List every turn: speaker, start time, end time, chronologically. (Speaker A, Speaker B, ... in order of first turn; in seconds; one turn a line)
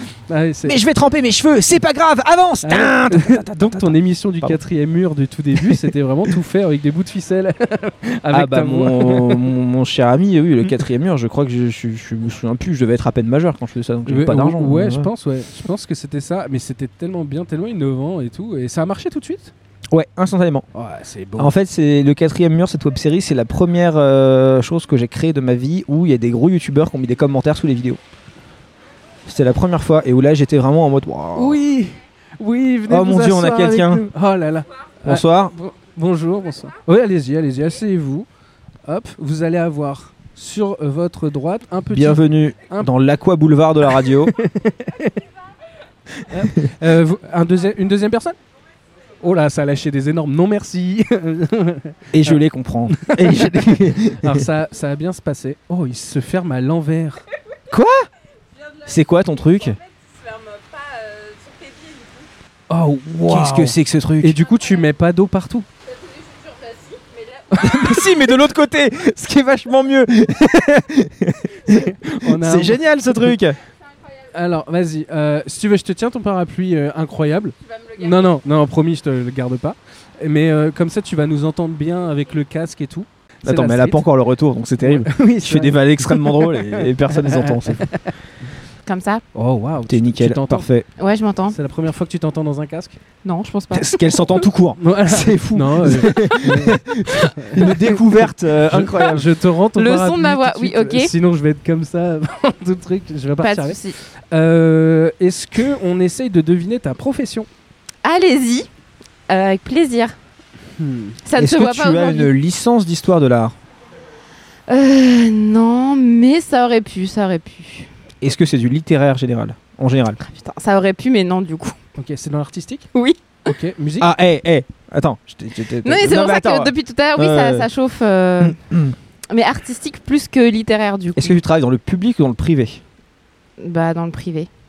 Speaker A: 0.3-0.8
Speaker B: 0.7-4.6
Speaker A: 2.6-9.5
Speaker B: 8.3-15.1
Speaker A: 14.1-19.5
Speaker B: 19.9-20.7
Speaker A: 20.7-21.5
Speaker B: 21.4-28.0
Speaker B: 29.3-31.6
Speaker A: 31.4-38.3
Speaker B: 32.9-34.1
Speaker B: 35.0-35.5
Speaker A: 38.9-42.9
Speaker B: 41.9-44.3
Speaker A: 44.1-45.2
Speaker A: 46.3-48.4
Speaker A: 49.2-52.4
Speaker B: 52.1-54.4
Speaker A: 52.9-57.2
Speaker B: 57.7-58.1
Speaker B: 58.9-59.8
Speaker A: 62.7-65.7
Speaker B: 63.3-64.4
Speaker A: 67.5-68.0
Speaker B: 67.5-73.6
Speaker A: 71.7-73.4
Speaker A: 74.3-84.0
Speaker B: 83.4-87.9
Speaker A: 84.8-88.1
Speaker C: 88.8-89.2
Speaker A: 89.3-90.7
Speaker B: 89.9-90.9
Speaker C: 91.0-91.6
Speaker A: 91.5-93.0
Speaker C: 93.2-94.2
Speaker B: 93.7-99.3
Speaker A: 94.8-96.8
Speaker A: 97.4-107.5
Speaker C: 99.8-101.1
Speaker C: 103.4-104.0
Speaker C: 108.0-108.7
Speaker C: 109.3-110.2
Speaker A: 110.8-111.2
Speaker C: 111.2-112.3
Speaker B: 111.4-113.5
Speaker C: 114.7-117.9
Speaker B: 118.2-120.2
Speaker C: 120.2-121.8
Speaker A: 122.0-122.9
Speaker C: 123.0-123.5
Speaker A: 123.5-124.1
Speaker B: 124.0-127.7
Speaker C: 125.8-128.6
Speaker B: 128.4-129.0
Speaker C: 129.3-131.4
Speaker B: 131.2-132.8
Speaker C: 133.6-134.5